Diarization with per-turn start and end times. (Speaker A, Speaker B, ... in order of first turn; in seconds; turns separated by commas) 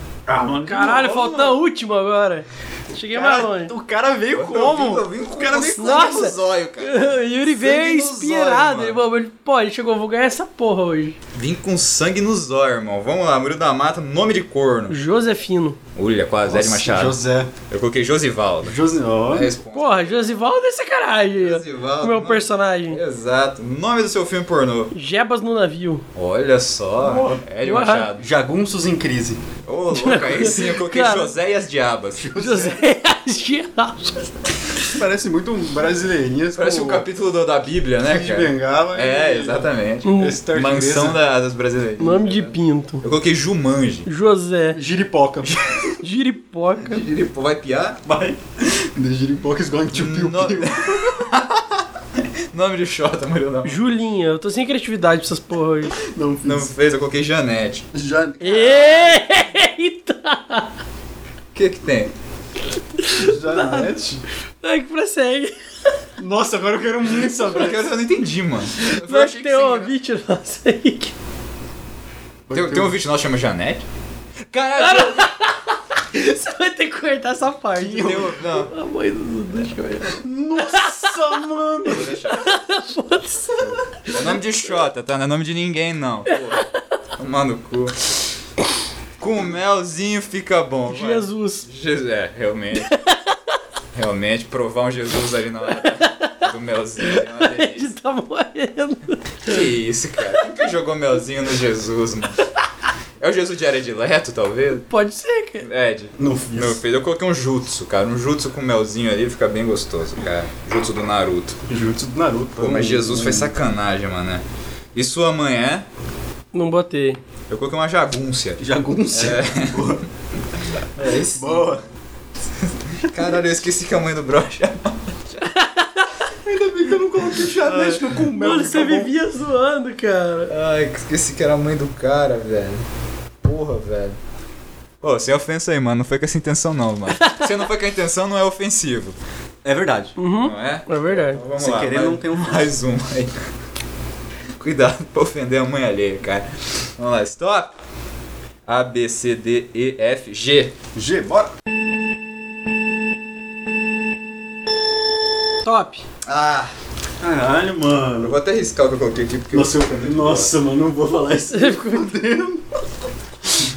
Speaker A: 0.3-1.6, Speaker B: 0.6-3.7, Speaker A: 3.1-6.3, Speaker C: 4.3-9.0, Speaker B: 5.8-11.2, Speaker C: 11.3-14.9, Speaker B: 14.9-15.8, Speaker C: 15.9-17.2, Speaker A: 16.5-17.5, Speaker C: 17.7-18.8, Speaker A: 18.6-19.5, Speaker C: 19.3-20.3, Speaker B: 19.7-23.0, Speaker C: 21.4-24.9, Speaker B: 24.9-26.0, Speaker C: 26.1-28.2, Speaker A: 27.0-27.4, Speaker B: 27.6-28.1, Speaker A: 28.2-29.4, Speaker C: 29.7-32.3, Speaker B: 29.9-31.3, Speaker A: 32.1-32.9, Speaker B: 32.3-34.3, Speaker A: 34.9-37.1, Speaker C: 36.5-44.1, Speaker A: 38.0-41.2, Speaker B: 40.0-40.4, Speaker B: 42.0-43.0, Speaker B: 44.0-44.8, Speaker A: 44.7-45.6, Speaker C: 45.5-46.0, Speaker B: 46.0-47.0, Speaker C: 46.8-48.0, Speaker A: 48.0-51.2, Speaker C: 49.9-53.8, Speaker B: 53.6-56.0, Speaker A: 56.0-56.7, Speaker C: 56.4-57.9, Speaker A: 57.9-59.2, Speaker B: 58.4-60.7, Speaker C: 61.5-62.1, Speaker B: 63.0-63.9, Speaker A: 63.1-64.2, Speaker B: 64.6-65.9, Speaker A: 66.2-67.9, Speaker C: 67.1-69.9, Speaker B: 68.7-71.1, Speaker A: 72.5-72.9, Speaker C: 72.5-73.8, Speaker C: 74.5-75.3, Speaker B: 74.8-81.2, Speaker A: 77.8-78.3, Speaker C: 78.0-78.7, Speaker A: 80.2-82.2, Speaker C: 81.8-82.5, Speaker B: 82.3-84.3, Speaker C: 83.6-88.2, Speaker B: 86.3-86.7, Speaker C: 89.2-92.9, Speaker B: 90.9-91.7, Speaker B: 92.8-93.3, Speaker C: 93.9-97.9, Speaker B: 95.7-99.7, Speaker C: 99.5-102.4, Speaker C: 103.2-104.9, Speaker B: 104.9-105.7, Speaker C: 105.6-111.6, Speaker A: 106.2-106.8, Speaker A: 111.7-113.5, Speaker C: 112.6-114.4, Speaker C: 114.9-115.8, Speaker B: 116.5-117.2, Speaker C: 117.5-120.0, Speaker A: 118.6-120.0, Speaker C: 121.0-121.7, Speaker A: 121.3-121.8, Speaker C: 122.9-125.5, Speaker B: 125.5-126.2, Speaker A: 126.4-129.1, Speaker C: 127.4-128.0, Speaker B: 128.4-130.5, Speaker C: 130.5-132.8, Speaker C: 133.4-134.2, Speaker C: 135.0-139.2, Speaker B: 137.2-137.4, Speaker A: 139.6-140.1, Speaker B: 140.2-141.4, Speaker C: 140.4-143.3, Speaker A: 141.6-142.7, Speaker C: 144.6-146.4, Speaker C: 147.0-147.7, Speaker C: 148.7-150.7, Speaker A: 150.9-151.5, Speaker B: 155.6-156.0, Speaker C: 156.2-156.7, Speaker A: 157.2-158.3, Speaker C: 158.2-160.5, Speaker A: 159.5-162.7, Speaker B: 161.5-162.0